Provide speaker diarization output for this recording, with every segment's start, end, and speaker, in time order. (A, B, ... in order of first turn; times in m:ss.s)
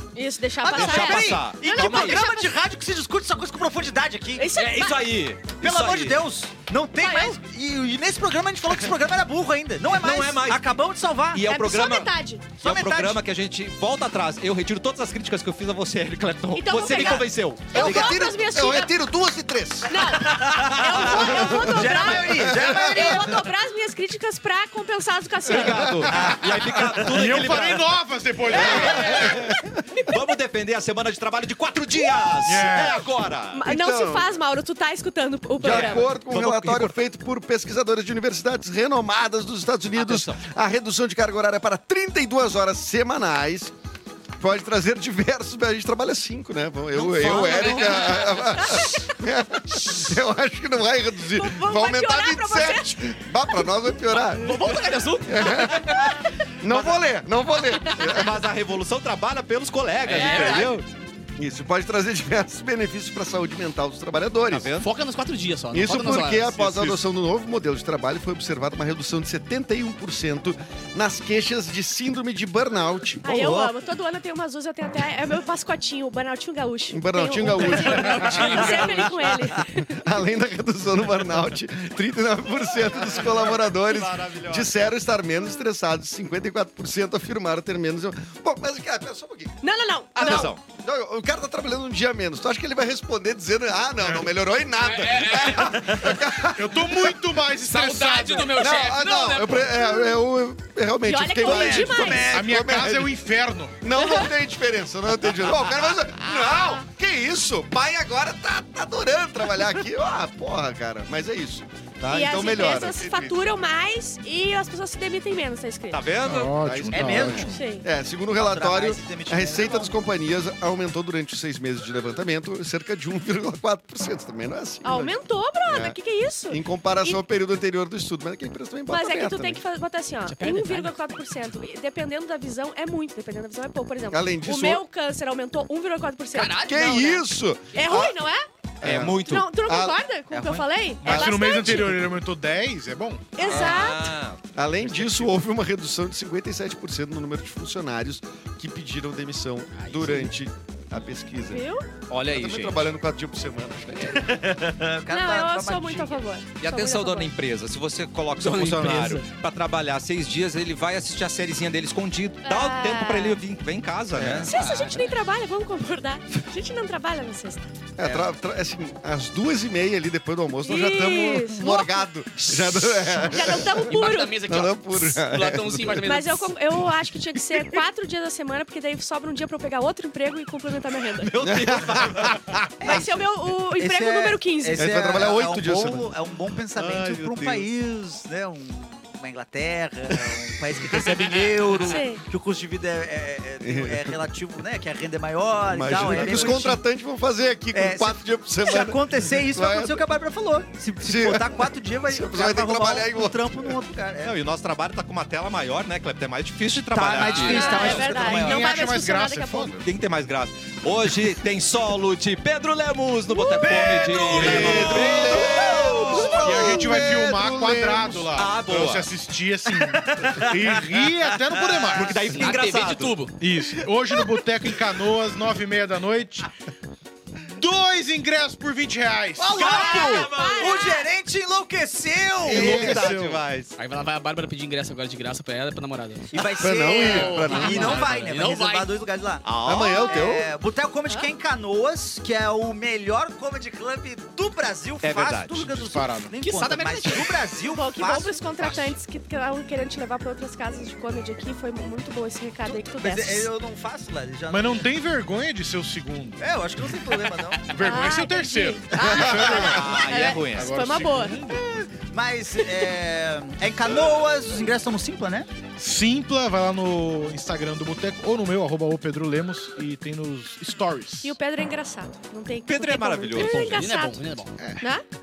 0:00.1-0:02.5 A
0:00.6-0:04.5 B
0:00.7-0:02.2 C
0:04.4-0:05.1 A
0:04.5-0:06.2 C
0:05.6-0:11.5 B
0:07.0-0:07.4 A
0:09.9-0:10.7 C
0:11.3-0:17.8 C
0:11.4-0:12.4 A
0:12.6-0:13.2 B
0:16.5-0:18.9 A
0:17.7-0:23.2 D
0:17.8-0:18.2 B
0:19.9-0:26.1 A
0:20.2-0:23.5 B
0:25.5-0:27.0 D
0:25.5-0:27.9 C
0:26.1-0:27.0 B
0:26.1-0:26.4 E
0:27.0-0:29.1 E
0:28.5-0:29.4 C
0:28.6-0:29.7 D
0:28.7-0:30.1 A
0:30.0-0:33.7 C
0:32.4-0:33.0 E
0:33.5-0:36.1 A
0:33.6-0:34.3 D
0:35.6-0:43.7 D
0:35.6-0:36.9 C
0:39.9-0:40.4 C
0:44.4-0:58.5 D
0:47.0-0:48.4 F
0:47.1-0:48.2 C
0:51.3-0:53.7 A
0:54.1-0:56.0 F
0:57.9-1:00.8 C
1:00.0-1:00.8 F
1:01.4-1:04.7 D
1:04.5-1:04.9 C
1:04.8-1:06.6 F
1:05.7-1:13.7 D
1:06.5-1:06.9 C
1:13.2-1:20.0 A
1:16.9-1:19.0 D
1:17.5-1:19.2 F
1:19.8-1:29.6 D
1:22.7-1:24.7 C
1:29.6-1:30.5 A
1:30.2-1:30.6 C
1:30.2-1:37.2 D
1:34.0-1:34.3 E
1:34.8-1:36.1 F
1:36.5-1:38.7 E
1:37.6-1:40.0 F
1:38.6-1:43.1 D
1:41.0-1:42.3 A
1:41.4-1:42.1 B
1:42.1-1:43.7 E
1:43.8-1:53.4 D
1:43.9-1:44.3 A
1:46.5-1:46.8 A
1:52.1-1:56.1 A
1:55.9-1:56.5 C
1:56.2-1:57.6 E
1:56.6-2:09.6 D
1:56.9-1:57.5 B
1:57.5-1:57.8 A
1:58.3-2:00.0 B
2:04.8-2:07.2 A
2:08.9-2:16.9 A
2:10.3-2:10.9 F
2:14.1-2:14.8 D
2:16.3-2:17.2 F
2:16.7-2:18.2 D
2:17.7-2:18.4 A
2:18.8-2:19.5 C
2:18.8-2:20.0 D
2:19.2-2:22.0 A
2:20.3-2:20.7 B
2:21.0-2:23.4 E
2:21.0-2:21.7 D
2:23.3-2:24.1 A
2:23.4-2:25.4 C
2:24.5-2:31.6 D
2:29.7-2:30.3 F
2:31.4-2:31.8 A
2:32.1-2:32.9 C
2:32.2-2:34.4 D
2:34.0-2:36.2 B
2:35.1-2:37.3 A
2:36.6-2:44.5 C
2:38.4-2:39.3 F
2:42.4-2:43.4 A
2:44.2-2:44.4 B
2:44.2-2:44.5 D
2:44.5-2:45.1 F
2:44.5-2:47.7 A
2:48.0-2:56.1 D
2:50.6-2:52.0 A
2:53.3-2:54.4 A
2:53.8-2:56.5 F
2:56.0-3:02.0 A
3:01.2-3:02.4 C
3:01.4-3:03.0 D
3:02.8-3:04.9 A
3:03.8-3:16.8 B
3:04.7-3:06.1 D
3:06.8-3:07.6 C
3:11.8-3:12.2 A
3:13.6-3:14.1 D
3:15.7-3:20.0 D
3:17.7-3:24.4 B
3:21.0-3:23.7 D
3:24.2-3:28.0 C
3:26.9-3:28.7 B
3:27.3-3:29.7 A
3:27.5-3:29.9 E
3:29.8-3:36.5 C
3:33.3-3:34.4 A
3:33.6-3:36.7 B
3:34.3-3:38.3 D
3:34.3-3:35.4 E
3:36.4-3:42.5 E
3:38.3-3:39.1 C
3:39.8-3:42.1 B
3:41.9-3:43.3 C
3:42.3-3:43.3 F
3:43.4-3:46.5 E
3:47.5-3:49.7 E
3:49.4-3:53.1 B
3:49.4-3:50.8 C
3:49.5-3:51.0 A
3:52.4-3:53.7 C
3:52.5-3:53.4 E
3:52.9-3:53.2 D
3:53.8-3:58.9 F
3:56.3-4:08.8 B
3:56.6-3:58.2 D
3:59.4-4:00.0 C
3:59.6-4:00.5 D
3:59.9-4:00.2 A
4:05.0-4:05.7 C
4:05.5-4:06.3 E
4:06.4-4:07.4 F
4:07.6-4:13.5 A
4:12.6-4:14.9 B
4:14.5-4:16.4 E
4:16.4-4:17.6 B
4:17.7-4:21.6 E
4:17.8-4:21.4 A
4:18.9-4:19.7 D
4:19.6-4:20.9 C
4:21.5-4:25.5 B
4:25.8-4:31.3 E
4:31.2-4:34.2 A
4:32.7-4:33.8 C
4:33.3-4:34.5 F
4:34.6-4:34.8 E